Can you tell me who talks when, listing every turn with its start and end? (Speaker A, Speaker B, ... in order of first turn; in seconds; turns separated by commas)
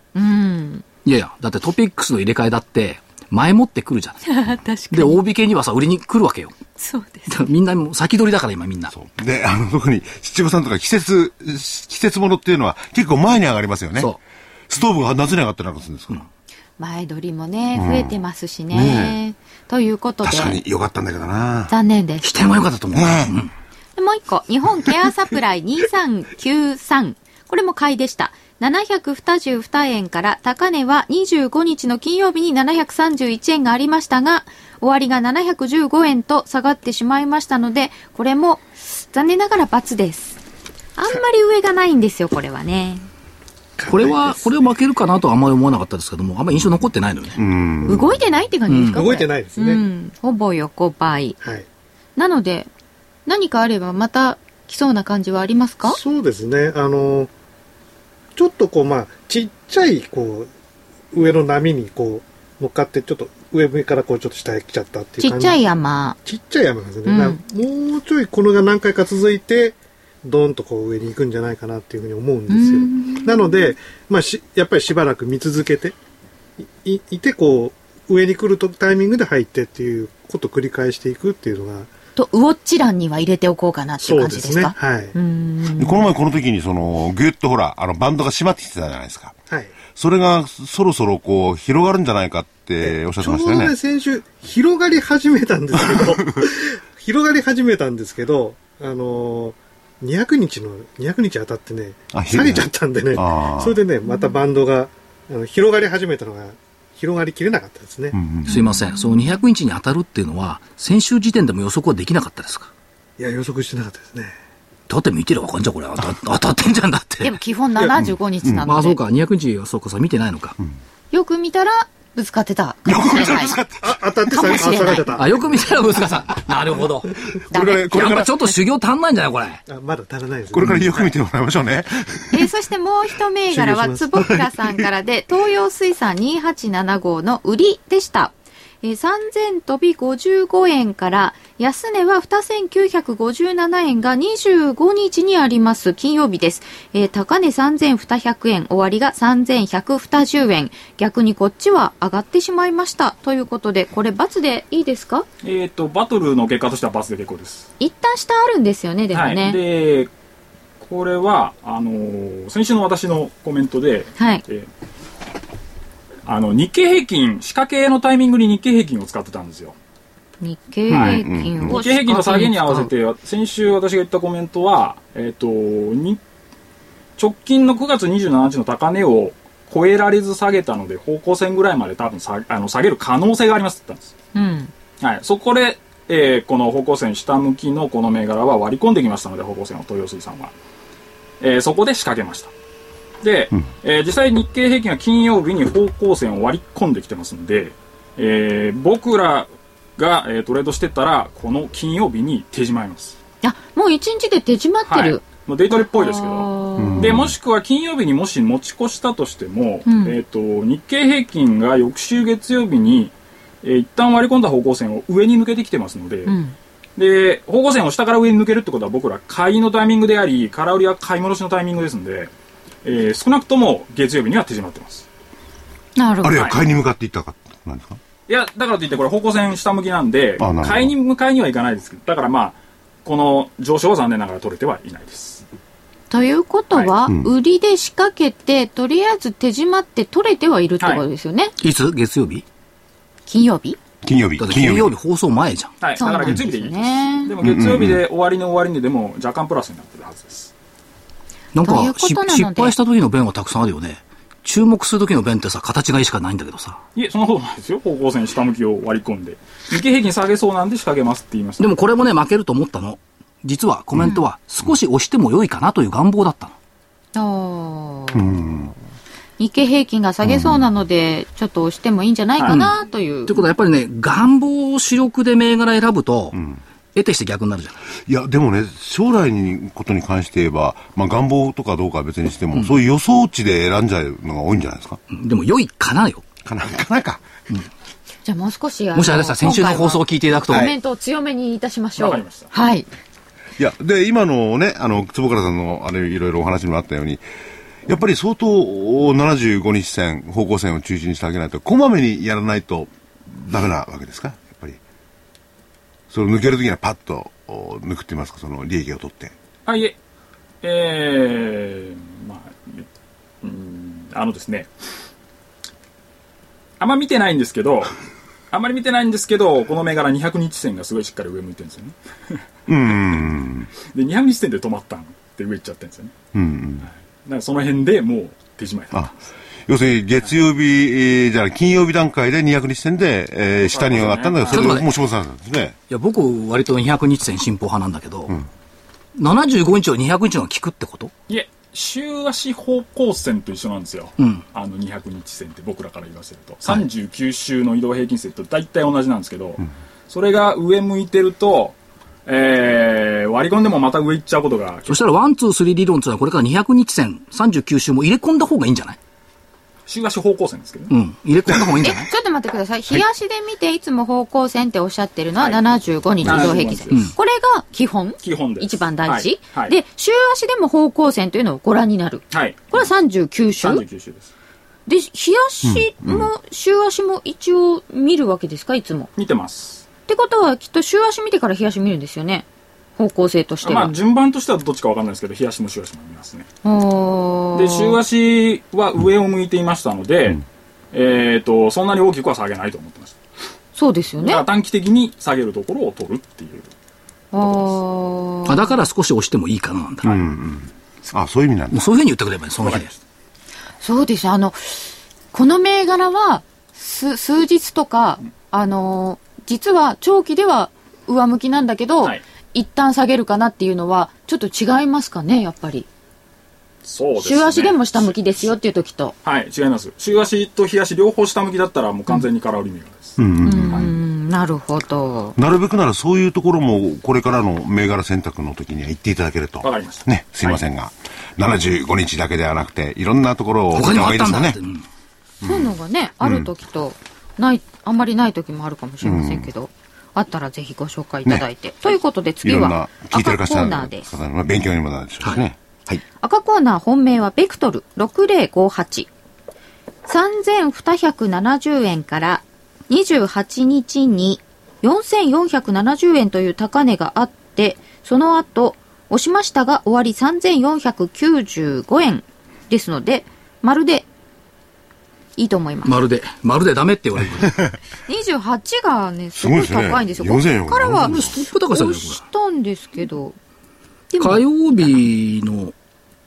Speaker A: 0.1-0.8, Speaker B: 1.0-4.2, Speaker A: 4.2-5.2, Speaker B: 4.9-6.5, Speaker A: 6.8-7.5, Speaker B: 7.3-8.9, Speaker C: 8.9-14.1, Speaker C: 14.7-16.2, Speaker A: 16.8-20.6, Speaker C: 17.7-18.2, Speaker C: 18.7-19.2, Speaker C: 20.2-21.7, Speaker A: 21.7-22.3, Speaker B: 22.2-23.5, Speaker C: 22.9-23.3, Speaker A: 23.9-40.4, Speaker A: 41.0-43.1, Speaker D: 43.8-44.7, Speaker B: 43.9-47.4, Speaker C: 47.4-48.2, Speaker D: 47.8-48.1, Speaker A: 47.9-51.4, Speaker B: 48.7-49.1, Speaker D: 48.9-49.8, Speaker A: 52.1-52.7, Speaker A: 53.2-56.0, Speaker D: 55.8-57.3, Speaker D: 58.4-60.5, Speaker D: 61.1-65.6, Speaker A: 65.2-66.2, Speaker D: 66.2-76.0, Speaker A: 67.0-67.4, Speaker A: 72.5-73.7, Speaker D: 76.7-81.9, Speaker A: 82.2-86.0, Speaker D: 84.0-85.1, Speaker C: 85.8-89.3, Speaker C: 89.9-93.7, Speaker D: 92.8-108.2, Speaker C: 102.1-103.8, Speaker A: 104.1-104.3, Speaker C: 108.1-108.5, Speaker B: 108.5-112.7, Speaker A: 108.5-109.4, Speaker D: 113.2-114.3, Speaker B: 114.9-117.3, Speaker A: 117.2-119.0, Speaker C: 118.0-118.7, Speaker B: 118.7-120.5, Speaker A: 121.1-123.6, Speaker C: 122.8-124.0, Speaker D: 123.8-125.9, Speaker A: 124.3-125.1, Speaker B: 125.1-127.1, Speaker A: 127.5-128.2, Speaker C: 127.5-128.4, Speaker B: 127.7-129.6, Speaker D: 129.7-131.1, Speaker C: 130.5-132.5, Speaker A: 132.3-155.2, Speaker D: 133.5-134.4, Speaker E: 155.4-157.7, Speaker A: 157.8-159.6, Speaker E: 159.1-160.1, Speaker E: 160.8-164.7, Speaker A: 164.2-164.4, Speaker E: 166.2-169.8, Speaker A: 170.4-172.9, Speaker C: 170.9-171.8, Speaker E: 170.9-176.2, Speaker E: 177.2-184.1, Speaker A: 184.3-184.7, Speaker E: 185.0-190.5, Speaker E: 191.4-192.5, Speaker E: 193.2-203.2, Speaker A: 203.4-207.2, Speaker E: 204.9-216.3, Speaker C: 206.8-207.3, Speaker A: 209.8-210.2, Speaker A: 216.3-216.5, Speaker E: 217.0-222.3, Speaker E: 222.8-225.1, Speaker A: 225.9-226.6, Speaker C: 226.2-228.0, Speaker E: 228.3-235.4, Speaker C: 230.4-230.9, Speaker A: 236.1-241.5, Speaker C: 237.1-237.3, Speaker B: 241.6-242.4, Speaker A: 243.3-243.8, Speaker C: 244.0-244.9, Speaker B: 244.4-245.7, Speaker E: 245.8-250.5, Speaker A: 246.0-247.3, Speaker C: 247.4-248.0, Speaker B: 251.5-256.8, Speaker A: 251.6-252.8, Speaker E: 256.9-261.7, Speaker B: 261.6-266.5, Speaker A: 267.1-268.3, Speaker C: 268.1-268.7, Speaker A: 269.4-273.4, Speaker C: 270.2-270.6, Speaker E: 272.4-272.6, Speaker B: 272.5-272.8, Speaker B: 273.3-276.4, Speaker B: 276.9-277.8, Speaker C: 278.1-285.0, Speaker B: 282.5-282.8, Speaker B: 285.1-286.2, Speaker C: 286.4-287.2, Speaker A: 288.2-292.9, Speaker B: 288.9-290.7, Speaker E: 292.0-292.5, Speaker C: 293.6-297.2, Speaker C: 297.9-304.8, Speaker C: 306.1-309.3, Speaker E: 309.6-309.9, Speaker E: 310.6-312.9, Speaker E: 313.4-314.7, Speaker E: 316.8-317.9, Speaker E: 318.5-323.2, Speaker C: 322.7-323.7, Speaker E: 323.9-326.1, Speaker C: 326.3-326.9, Speaker E: 326.8-329.1, Speaker C: 329.7-335.8, Speaker E: 333.6-334.8, Speaker B: 334.5-334.9, Speaker B: 335.9-338.4, Speaker B: 339.1-341.1, Speaker E: 341.3-355.1, Speaker B: 344.2-344.4, Speaker B: 354.9-359.0, Speaker E: 359.9-360.9, Speaker B: 360.9-362.1, Speaker A: 361.8-373.8, Speaker E: 365.4-365.6, Speaker C: 366.2-366.5, Speaker E: 366.2-367.0, Speaker B: 366.9-367.1, Speaker E: 368.2-369.7, Speaker E: 372.3-372.9, Speaker E: 373.6-374.3, Speaker A: 374.9-379.1, Speaker C: 375.6-376.3, Speaker E: 379.2-379.8, Speaker A: 380.1-382.4, Speaker A: 383.0-383.9, Speaker E: 383.6-386.5, Speaker A: 386.6-388.0, Speaker E: 387.5-393.1, Speaker A: 393.7-394.4, Speaker E: 394.2-396.7, Speaker A: 397.3-398.7, Speaker E: 397.4-397.8, Speaker B: 398.4-400.2, Speaker C: 400.0-401.8, Speaker B: 401.7-402.9, Speaker E: 402.6-402.9, Speaker A: 403.8-415.9, Speaker E: 416.8-418.4, Speaker A: 417.2-419.1, Speaker E: 419.2-423.9, Speaker C: 423.2-423.9, Speaker A: 423.4-425.4, Speaker C: 425.4-434.6, Speaker E: 429.6-430.6, Speaker B: 433.7-434.8, Speaker C: 435.4-436.5, Speaker A: 435.4-444.1, Speaker C: 439.0-439.5, Speaker C: 442.4-446.0, Speaker A: 446.2-449.1, Speaker A: 450.1-464.1, Speaker A: 465.4-466.0, Speaker B: 465.8-467.6, Speaker C: 467.4-467.7, Speaker A: 468.1-473.4, Speaker C: 469.4-471.3, Speaker B: 471.0-472.2, Speaker A: 474.1-475.0, Speaker B: 474.2-475.7